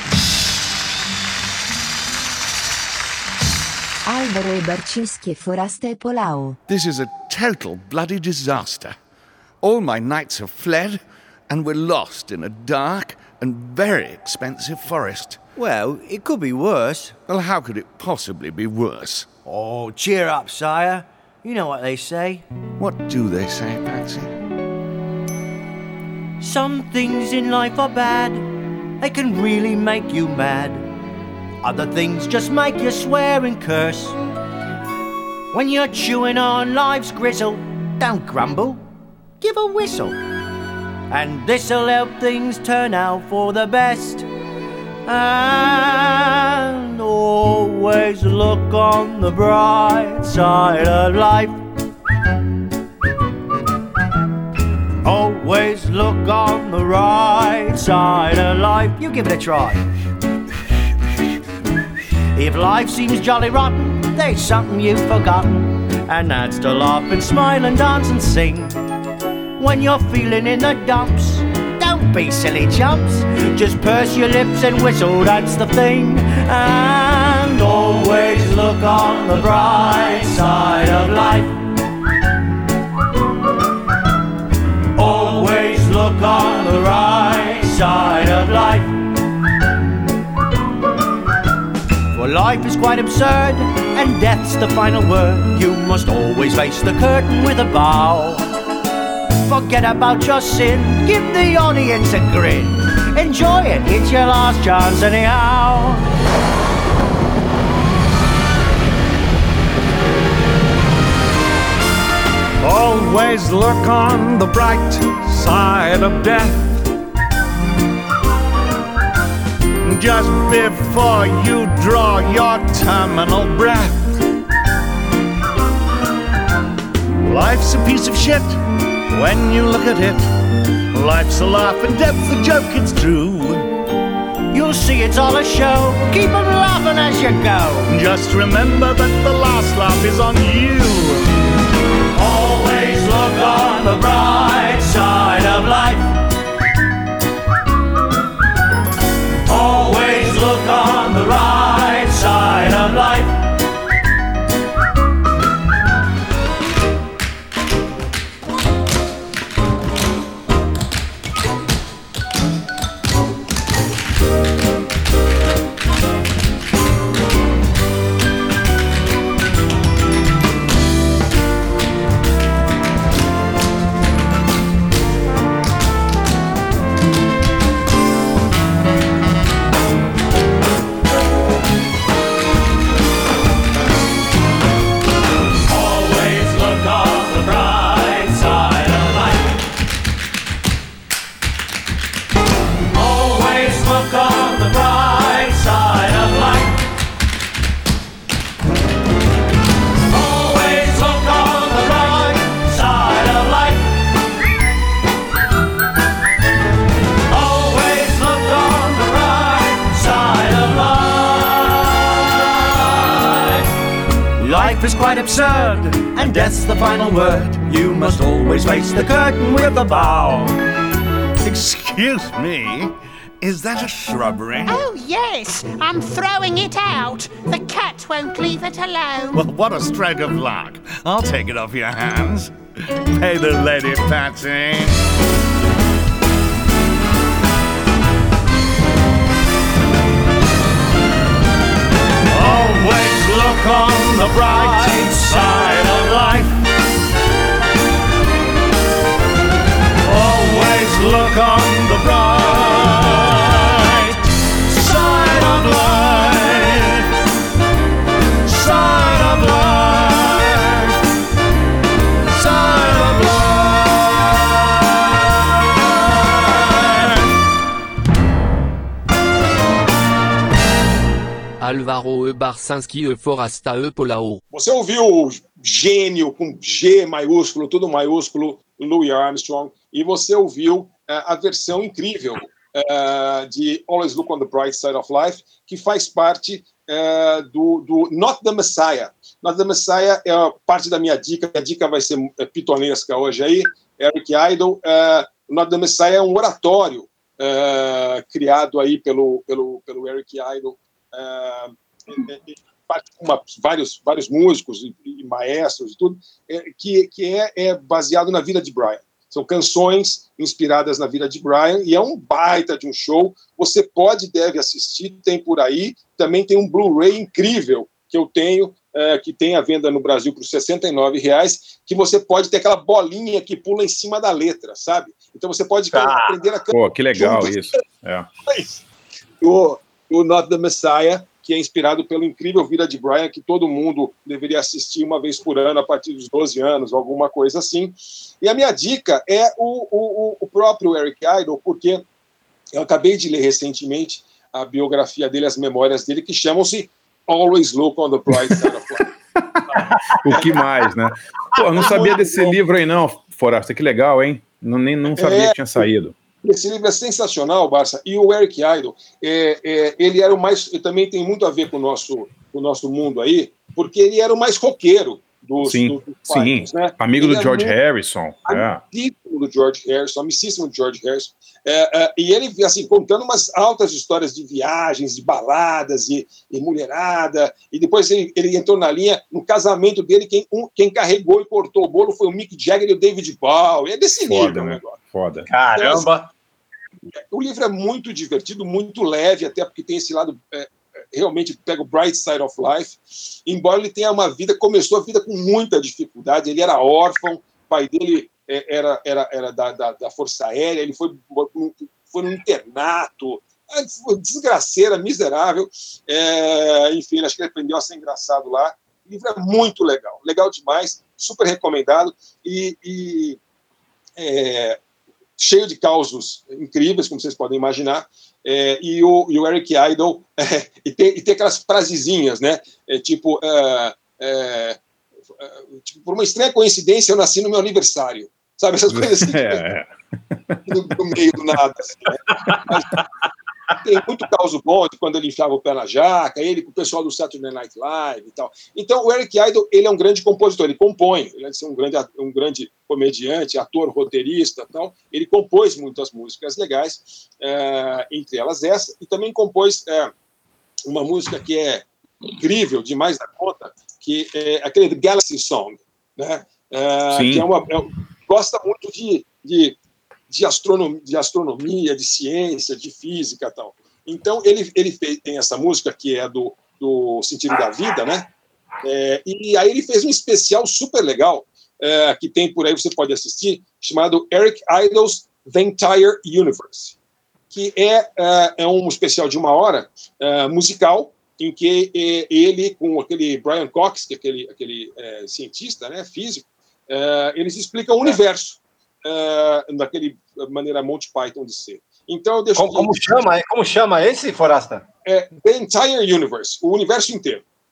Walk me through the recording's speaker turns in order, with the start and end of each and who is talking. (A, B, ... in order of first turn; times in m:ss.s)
0:04.1-0:06.6 A
0:06.7-0:09.0 B
0:09.6-0:15.4 B
0:15.6-0:17.2 C
0:17.3-0:19.5 B
0:19.8-0:22.4 C
0:22.8-0:24.3 B
0:26.4-0:28.5 C
0:29.0-0:30.8 C
0:31.6-0:34.2 C
0:35.5-0:38.8 C
0:39.4-0:40.2 C
0:41.1-0:44.3 C
0:45.1-0:51.6 C
0:55.0-0:59.9 C
1:02.3-1:08.8 C
1:09.6-1:21.6 C
1:25.0-1:29.0 C
1:32.1-1:38.4 C
1:39.4-1:46.0 C
1:52.6-1:56.8 D
1:59.8-2:04.1 D
2:07.2-2:10.3 D
2:10.9-2:13.7 D
2:14.5-2:18.0 C
2:17.9-2:21.3 D
2:22.1-2:26.2 C
2:29.5-2:33.5 C
3:05.7-3:09.5 C
3:12.9-3:16.8 C
3:20.1-3:24.0 C
3:27.3-3:33.6 C
3:34.4-3:40.5 C
3:39.6-3:40.3 D
3:41.4-3:44.8 D
3:44.7-3:49.4 E
3:49.3-3:52.5 D
3:53.1-3:55.0 D
4:02.3-4:06.5 D
4:04.6-4:05.1 C
4:10.0-4:14.1 D
4:14.7-4:16.8 D
4:18.5-4:20.5 D
4:22.4-4:23.4 D
4:31.6-4:34.4 F
4:34.5-5:27.6 G
5:25.9-5:26.4 H
5:26.7-5:28.3 I
5:28.5-5:28.8 G
5:29.4-5:42.0 G
5:42.7-5:49.1 G
5:49.7-5:50.6 G
5:49.8-5:50.4 H
5:50.2-5:56.2 I
5:51.8-5:52.6 G
5:55.1-5:55.9 G
5:56.4-6:07.8 G
6:05.6-6:08.8 I
6:08.5-6:25.0 G
6:24.3-6:25.5 I
6:25.5-6:26.3 H
6:25.8-6:26.1 G
6:27.3-6:53.4 G
6:54.2-6:54.8 G
6:55.4-7:04.8 G
7:05.4-7:09.6 G
7:08.9-7:10.6 I
7:10.7-7:13.0 G
7:13.8-7:30.1 G
7:30.9-7:39.8 G
7:37.1-7:37.5 I
7:40.3-7:48.3 G
7:48.8-7:57.0 G
7:57.5-8:13.2 G
8:12.6-8:14.8 H
8:15.1-8:17.4 G